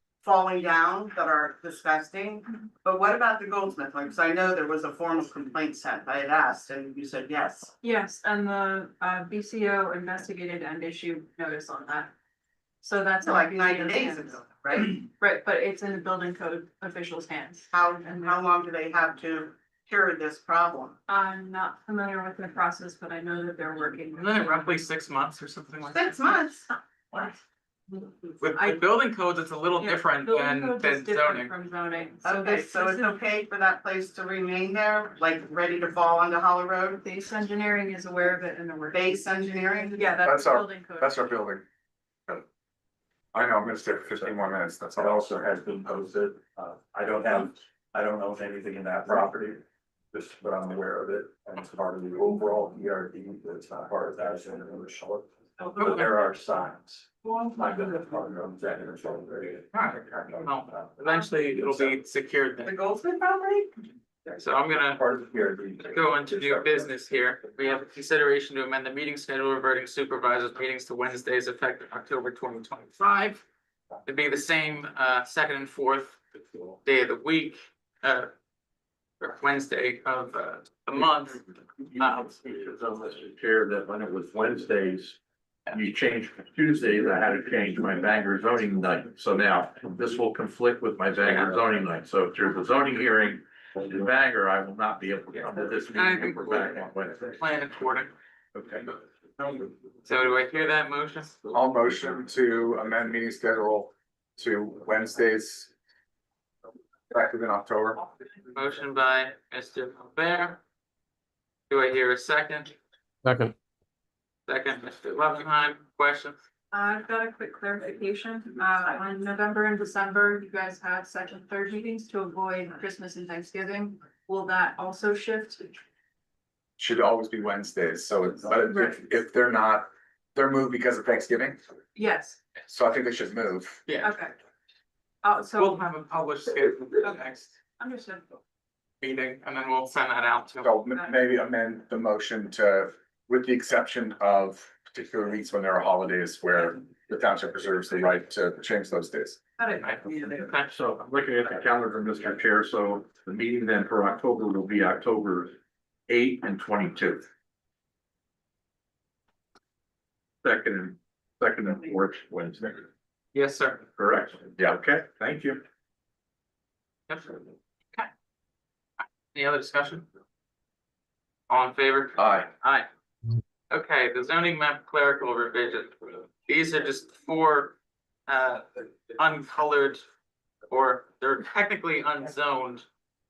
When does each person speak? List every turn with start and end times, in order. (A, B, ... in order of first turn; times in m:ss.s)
0:00.2-0:07.7 A
0:07.8-0:12.1 B
0:12.8-0:18.4 B
0:13.2-0:15.0 A
0:17.7-0:21.0 A
0:21.1-0:24.7 B
0:24.2-0:26.4 C
0:25.9-0:26.7 A
0:28.3-0:28.9 B
0:28.4-0:31.5 C
0:29.8-0:33.2 B
0:32.2-0:37.0 A
0:37.0-0:41.2 B
0:38.9-0:40.2 A
0:40.2-0:41.6 D
0:43.3-0:45.2 D
0:45.0-1:00.5 E
0:55.8-0:56.1 C
0:59.7-1:02.7 C
1:02.7-1:03.6 A
1:04.3-1:05.0 C
1:05.1-1:05.7 E
1:05.8-1:13.4 C
1:14.0-1:16.2 C
1:16.8-1:18.3 C
1:19.2-1:22.4 C
1:22.0-1:25.2 F
1:25.7-1:37.4 F
1:35.9-1:36.8 C
1:37.3-1:38.1 C
1:38.5-1:38.9 F
1:39.4-1:41.5 C
1:41.5-1:45.7 D
1:47.1-1:48.0 D
1:48.5-1:50.6 C
1:51.7-1:52.7 C
1:54.5-1:56.4 C
1:56.7-2:05.7 B
2:06.8-2:11.6 D
2:11.9-2:12.4 B
2:12.7-2:13.8 D
2:13.8-2:14.1 C
2:14.0-2:14.3 B
2:15.2-2:15.8 B
2:15.5-2:17.5 C
2:17.8-2:18.2 B
2:19.0-2:20.7 C
2:20.6-2:29.4 D
2:29.6-2:30.0 B
2:29.8-2:30.7 C
2:30.7-2:35.6 F
2:36.1-2:37.3 F
2:40.4-2:42.9 F
2:43.3-2:43.8 C
2:44.0-2:45.6 F
2:47.1-2:48.1 C
2:49.3-2:50.1 C
2:51.5-2:52.9 C
2:52.2-2:52.5 D
2:53.7-3:00.0 C
3:00.7-3:02.9 C